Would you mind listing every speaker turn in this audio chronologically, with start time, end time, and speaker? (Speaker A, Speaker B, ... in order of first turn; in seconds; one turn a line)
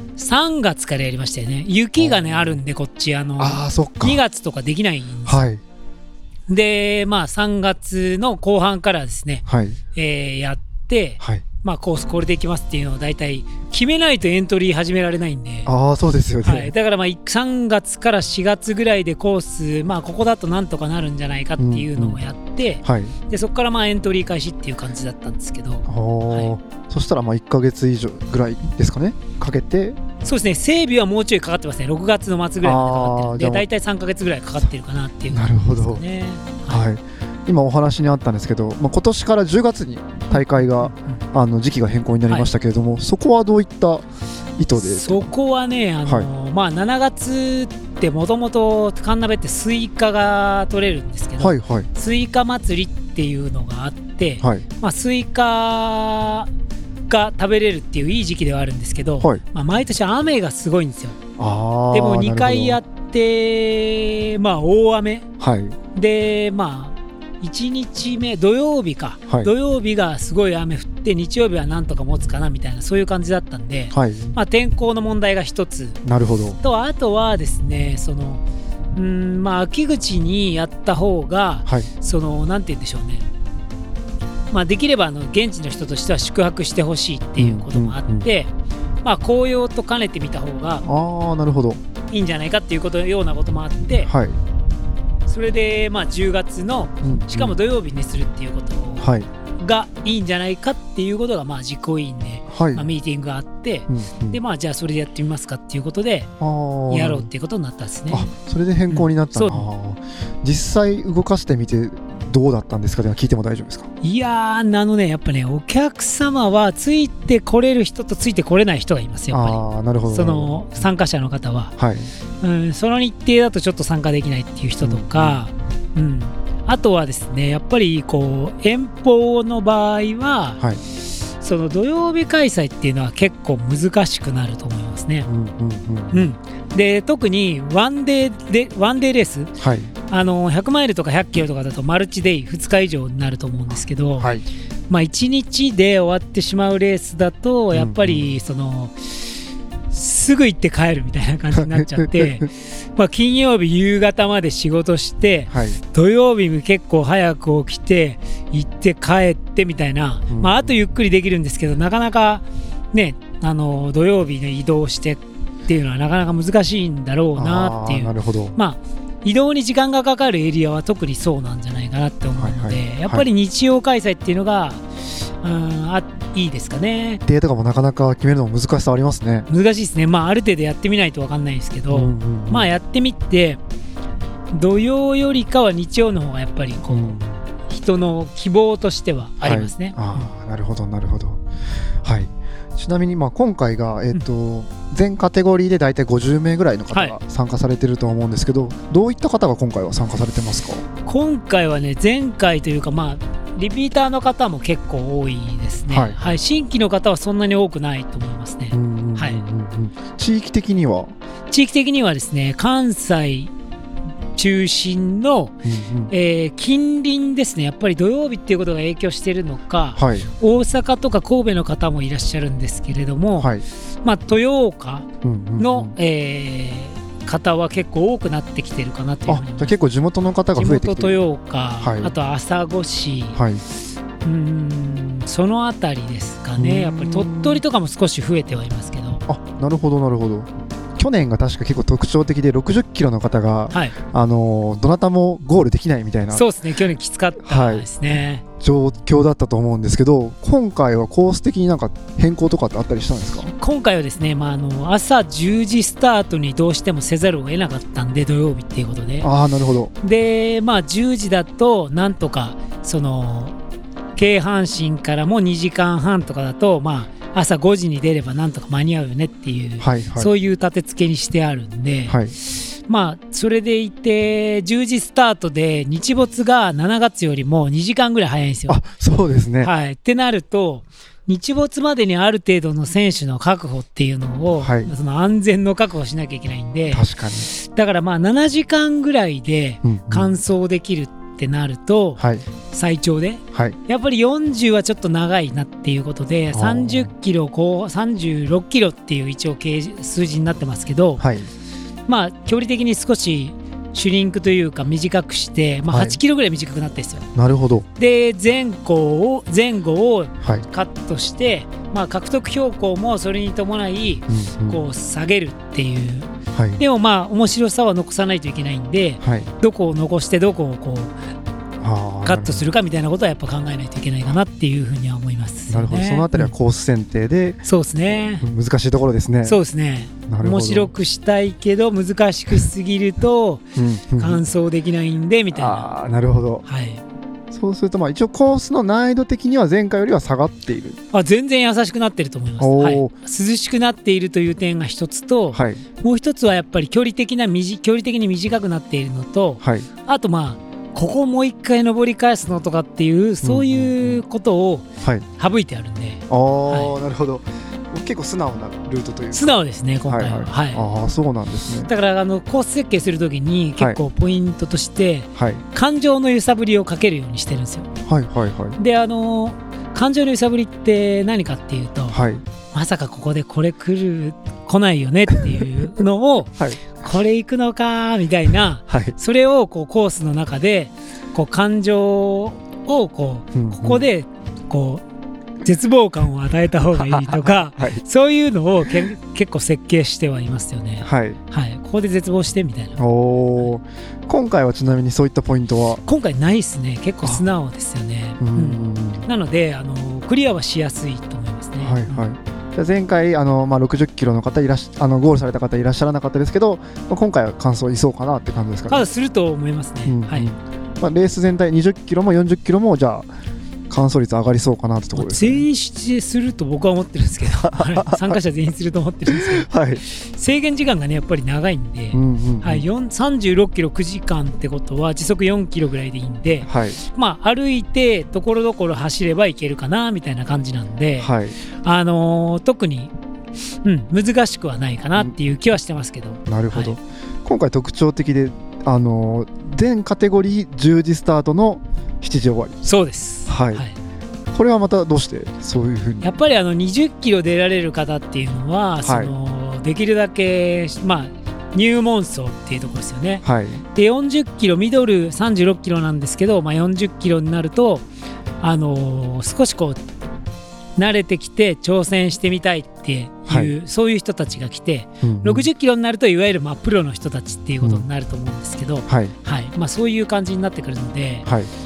Speaker A: 0.2-5.4
Speaker B: 2.0-2.6
Speaker B: 3.4-4.2
Speaker B: 5.2-5.6
Speaker A: 6.5-15.7
Speaker B: 9.5-9.8
Speaker B: 11.2-11.4
Speaker B: 15.7-16.7
Speaker A: 16.4-26.5
Speaker B: 21.6-22.2
Speaker B: 22.8-23.1
Speaker B: 25.9-30.0
Speaker A: 30.2-36.8
Speaker B: 32.6-33.7
Speaker B: 35.3-36.0
Speaker B: 36.7-44.0
Speaker A: 40.3-41.2
Speaker B: 44.6-45.3
Speaker A: 44.7-56.5
Speaker B: 51.4-51.9
Speaker A: 57.1-61.2
Speaker B: 61.4-62.8
Speaker A: 61.9-65.2
Speaker B: 65.4-65.8
Speaker A: 65.9-76.0
Speaker B: 73.9-74.3
Speaker B: 76.0-76.6
Speaker A: 76.6-78.4
Speaker A: 78.9-83.2
Speaker A: 84.5-88.5
Speaker B: 87.4-88.3
Speaker A: 89.0-90.8
Speaker B: 90.8-91.8
Speaker A: 92.1-94.1
Speaker B: 94.0-94.4
Speaker A: 95.2-106.3
Speaker B: 97.0-97.5
Speaker B: 99.0-99.3
Speaker B: 102.5-102.9
Speaker B: 103.9-104.4
Speaker B: 106.4-107.3
Speaker A: 106.9-108.3
Speaker B: 108.1-113.9
Speaker A: 108.9-109.7
Speaker A: 114.0-121.7
Speaker B: 119.3-120.8
Speaker B: 121.8-122.1
Speaker A: 122.4-130.6
Speaker B: 124.8-125.4
Speaker A: 131.4-135.3
Speaker B: 135.2-136.3
Speaker A: 136.1-139.5
Speaker B: 139.6-139.9
Speaker A: 140.1-144.3
Speaker B: 144.2-144.4
Speaker A: 144.9-149.3
Speaker B: 147.7-148.3
Speaker A: 149.9-174.8
Speaker B: 151.5-152.3
Speaker B: 155.5-155.8
Speaker B: 160.3-160.8
Speaker B: 167.3-168.5
Speaker B: 172.4-173.2
Speaker A: 175.4-177.2
Speaker B: 177.2-179.5
Speaker A: 179.5-183.6
Speaker B: 181.9-182.7
Speaker A: 184.5-190.3
Speaker B: 186.9-187.4
Speaker B: 189.4-191.4
Speaker B: 192.0-200.8
Speaker A: 196.9-197.2
Speaker A: 201.1-209.4
Speaker B: 205.9-206.4
Speaker B: 208.7-211.1
Speaker A: 211.5-213.5
Speaker A: 214.3-215.6
Speaker B: 215.6-216.1
Speaker A: 216.1-223.5
Speaker B: 219.9-220.2
Speaker B: 223.4-223.6
Speaker A: 224.0-229.7
Speaker B: 225.2-225.9
Speaker B: 229.3-231.2
Speaker A: 230.5-233.4
Speaker B: 231.8-232.1
Speaker B: 233.3-233.6
Speaker A: 234.2-239.2
Speaker B: 236.6-237.6
Speaker B: 239.3-246.4
Speaker A: 243.7-243.9
Speaker A: 246.3-248.4
Speaker B: 247.4-247.9
Speaker B: 248.6-253.5
Speaker A: 253.6-259.3
Speaker B: 259.2-259.9
Speaker A: 260.0-263.5
Speaker A: 264.1-278.8
Speaker B: 269.8-270.3
Speaker B: 272.1-272.4
Speaker B: 278.7-279.7
Speaker A: 279.6-301.2
Speaker B: 284.6-284.9
Speaker B: 286.9-287.5
Speaker B: 289.8-290.4
Speaker B: 292.2-292.4
Speaker B: 296.5-297.1
Speaker B: 301.2-301.5
Speaker A: 302.1-307.3
Speaker B: 305.9-306.2
Speaker B: 307.3-307.9
Speaker A: 308.0-321.1
Speaker B: 314.3-314.9
Speaker B: 316.5-316.8
Speaker B: 319.2-319.5
Speaker B: 321.8-322.6
Speaker A: 322.2-326.5
Speaker B: 325.7-329.6
Speaker A: 327.6-328.4
Speaker A: 329.4-335.9
Speaker B: 330.3-330.9
Speaker B: 333.8-334.4
Speaker B: 335.5-336.6
Speaker A: 336.6-337.0
Speaker B: 337.5-341.0
Speaker A: 341.1-354.9
Speaker B: 342.6-343.1
Speaker B: 345.5-345.8
Speaker B: 349.6-349.9
Speaker B: 353.4-354.2
Speaker B: 355.0-355.2
Speaker A: 355.4-356.9
Speaker B: 356.3-361.9
Speaker A: 359.3-360.8
Speaker A: 361.9-367.9
Speaker B: 365.4-365.6
Speaker B: 368.0-368.8
Speaker A: 368.8-372.2
Speaker B: 372.1-372.4
Speaker A: 372.7-385.0
Speaker B: 376.6-376.8
Speaker B: 378.9-379.1
Speaker B: 383.5-384.0
Speaker A: 385.6-393.0
Speaker B: 386.9-388.0
Speaker B: 388.8-389.1
Speaker B: 391.0-391.4
Speaker B: 393.0-396.0
Speaker A: 396.0-402.2
Speaker B: 398.4-399.2
Speaker B: 401.8-409.1
Speaker A: 408.9-410.5
Speaker B: 410.0-413.3
Speaker B: 413.9-415.6
Speaker A: 415.1-433.1
Speaker B: 417.6-418.4
Speaker B: 419.3-420.0
Speaker B: 422.1-422.8
Speaker B: 426.6-427.0
Speaker B: 431.2-431.6
Speaker A: 433.8-436.9
Speaker B: 436.4-442.8
Speaker A: 442.8-443.9
Speaker B: 443.4-443.8
Speaker B: 444.5-446.4
Speaker A: 446.2-458.0
Speaker B: 449.0-449.3
Speaker B: 453.4-453.8
Speaker A: 458.6-460.0
Speaker A: 461.0-471.5
Speaker B: 463.5-463.7
Speaker B: 465.2-465.7
Speaker B: 469.1-469.3